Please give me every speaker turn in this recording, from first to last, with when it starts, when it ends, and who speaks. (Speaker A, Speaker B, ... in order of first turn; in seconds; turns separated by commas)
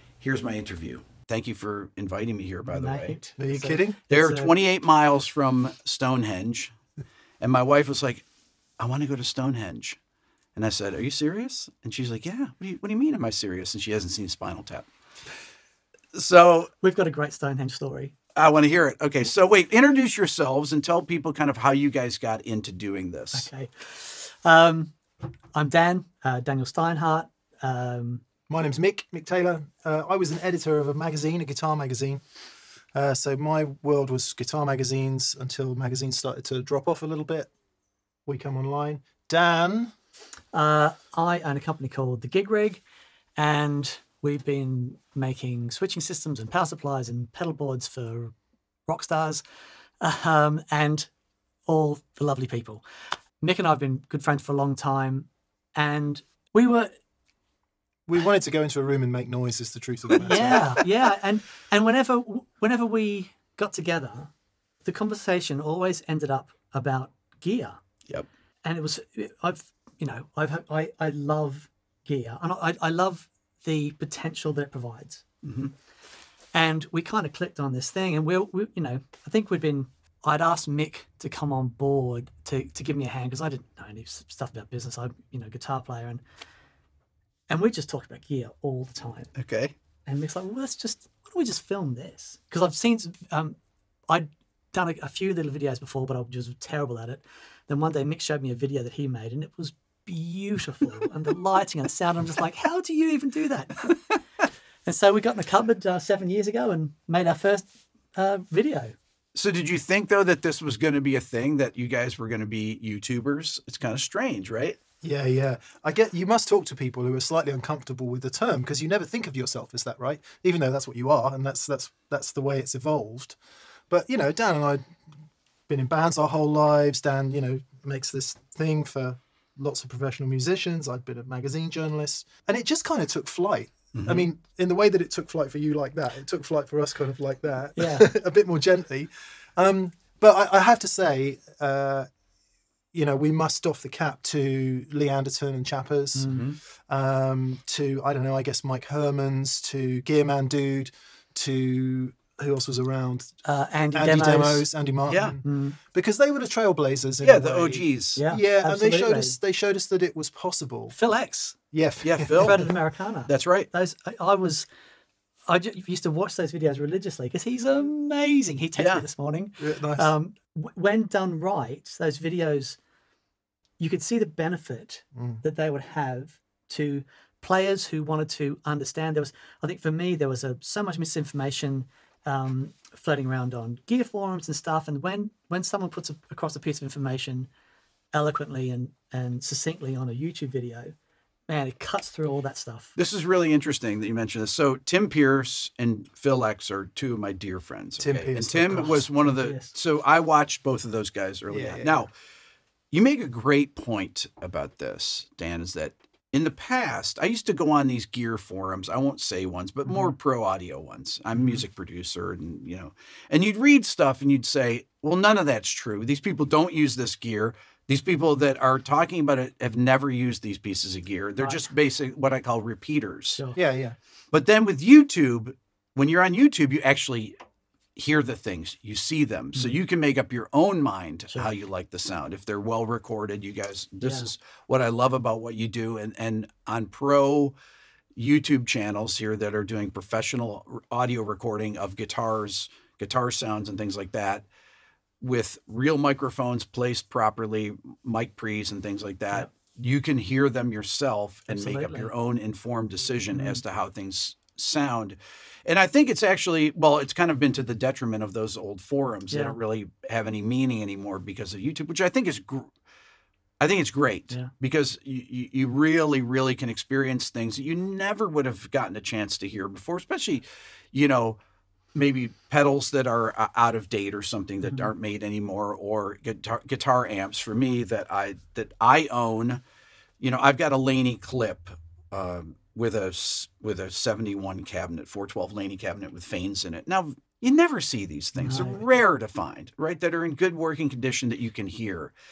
Speaker A: 0.2-3.2, Speaker B: 2.7-4.5, Speaker C: 3.4-4.0, Speaker A: 4.1-6.7, Speaker A: 7.4-8.2, Speaker A: 8.8-10.0, Speaker A: 10.6-14.9, Speaker A: 16.1-16.7, Speaker B: 16.8-18.1, Speaker A: 18.4-23.5, Speaker B: 23.3-24.9, Speaker B: 25.5-28.2, Speaker C: 28.5-32.2, Speaker C: 32.9-37.5, Speaker C: 38.2-39.9, Speaker B: 40.5-42.8, Speaker B: 43.4-48.3, Speaker B: 48.9-49.4, Speaker B: 50.0-51.1, Speaker B: 51.7-52.8, Speaker B: 53.4-56.9, Speaker C: 58.1-60.9, Speaker B: 60.2-64.3, Speaker B: 64.8-67.8, Speaker B: 68.6-75.2, Speaker A: 75.4-75.7, Speaker B: 76.5-86.2, Speaker B: 87.5-89.3, Speaker A: 89.3-89.7, Speaker B: 90.0-93.5, Speaker B: 94.1-103.9, Speaker B: 104.8-108.9, Speaker A: 109.3-114.8, Speaker C: 115.0-123.4, Speaker C: 123.9-124.8, Speaker C: 125.7-142.1, Speaker A: 133.9-134.2, Speaker B: 137.8-138.1, Speaker C: 142.9-146.3, Speaker B: 146.2-146.4, Speaker A: 146.3-146.6, Speaker C: 146.9-153.3, Speaker B: 153.4-154.7, Speaker C: 153.9-160.9, Speaker A: 155.1-155.4, Speaker B: 155.4-155.8, Speaker A: 157.2-158.2, Speaker B: 158.2-159.3, Speaker B: 160.9-161.6, Speaker C: 161.7-162.7, Speaker A: 162.0-162.7, Speaker B: 162.4-164.7, Speaker A: 163.3-163.7, Speaker B: 165.5-172.8, Speaker A: 168.8-169.0, Speaker C: 169.6-170.1, Speaker B: 173.8-187.5, Speaker C: 175.1-175.4, Speaker B: 188.1-190.9, Speaker B: 191.5-192.9, Speaker A: 192.9-202.1, Speaker C: 198.0-199.0, Speaker B: 198.7-199.7, Speaker C: 201.5-202.0, Speaker A: 202.9-223.4, Speaker B: 221.4-221.7, Speaker C: 223.5-223.9, Speaker A: 224.3-227.3, Speaker A: 227.9-237.6, Speaker B: 234.0-234.3, Speaker A: 238.2-244.4, Speaker A: 245.2-262.7, Speaker B: 251.5-252.1, Speaker B: 253.3-253.6, Speaker B: 259.3-259.6, Speaker A: 263.6-271.4, Speaker A: 271.9-279.6, Speaker A: 280.2-292.1, Speaker B: 288.4-288.8